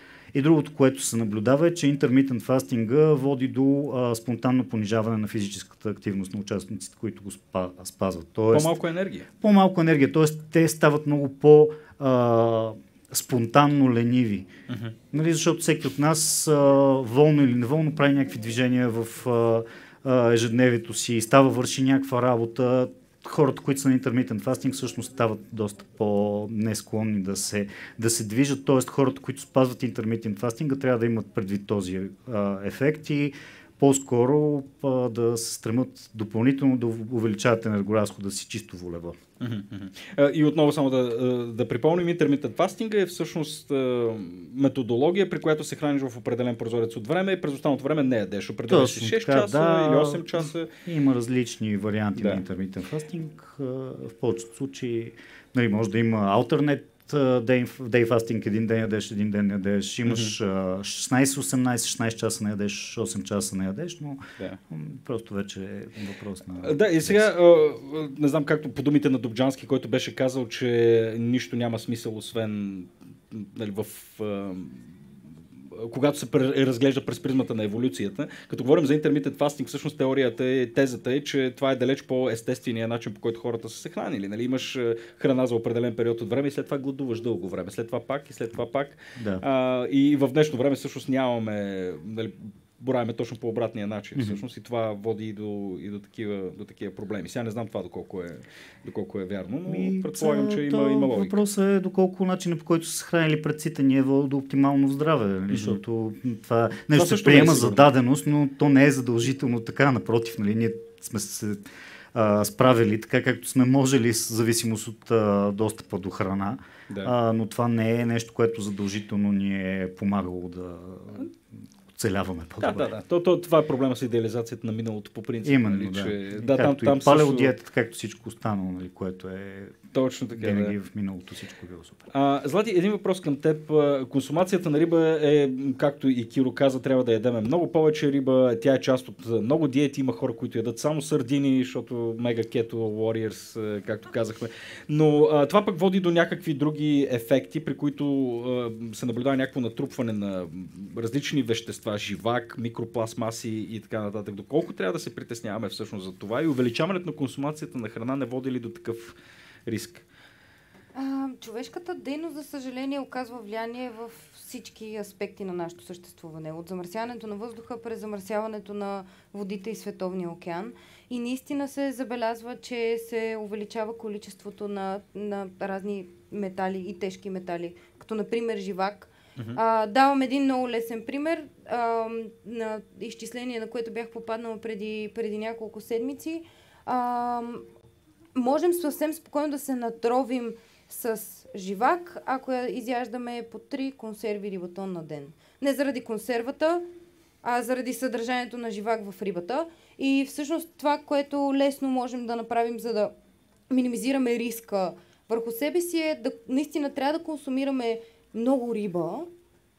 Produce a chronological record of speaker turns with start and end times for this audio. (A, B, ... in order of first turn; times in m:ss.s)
0:00.3-0:08.8 A
0:08.5-0:09.3 B
0:09.4-0:14.5 A
0:14.7-0:15.0 B
0:15.1-0:39.2 A
0:39.4-0:50.7 B
0:48.7-1:07.3 A
0:52.2-0:52.4 B
1:00.0-1:00.3 B
1:06.6-1:15.1 B
1:15.7-1:41.4 B
1:29.2-1:29.4 A
1:39.7-2:02.9 A
1:45.5-1:45.8 B
1:46.9-1:47.9 B
2:02.6-2:07.5 B
2:05.4-2:12.1 A
2:09.9-2:10.7 B
2:12.1-2:40.0 B
2:40.9-3:07.7 C
3:08.3-3:16.9 C
3:17.4-3:23.1 C
3:23.7-3:29.3 C